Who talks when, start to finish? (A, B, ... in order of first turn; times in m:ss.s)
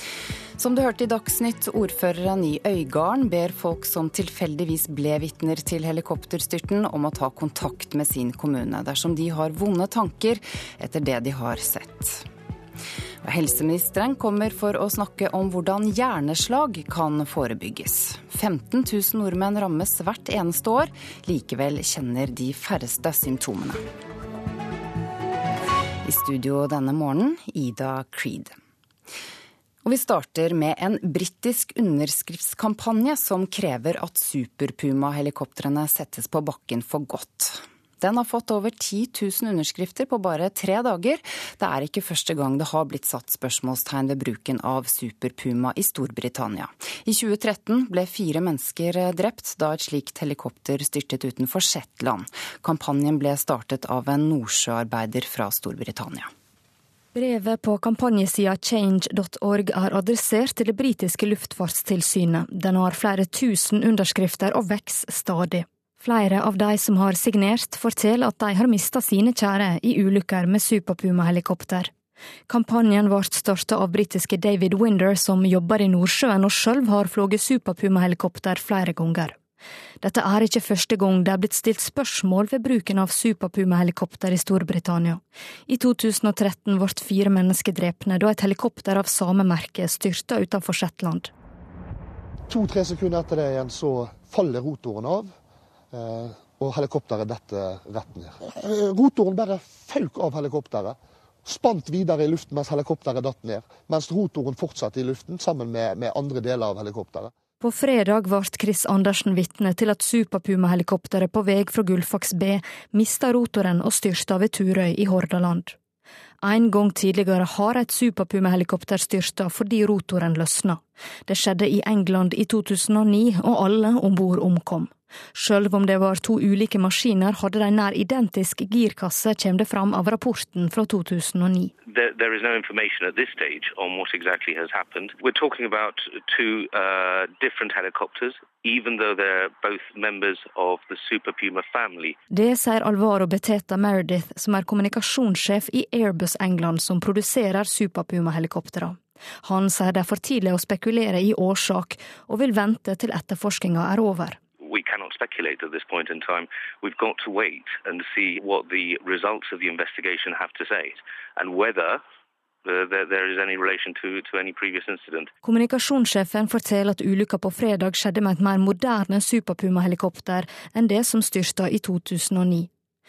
0:00.6-0:12.3 A
0:13.2-0:23.8 A
0:26.0-0:28.5 A
0:29.8-0:56.3 A
0:57.1-1:11.9 B
1:12.5-1:19.4 B
1:20.0-1:31.3 B
1:32.5-1:35.3 C
1:35.9-1:47.3 C
1:47.6-1:55.8 B
1:56.4-2:11.7 B
2:11.8-2:22.2 D
2:22.3-2:34.4 B
2:34.6-2:42.0 D
2:42.6-2:45.3 D
2:45.4-2:52.7 B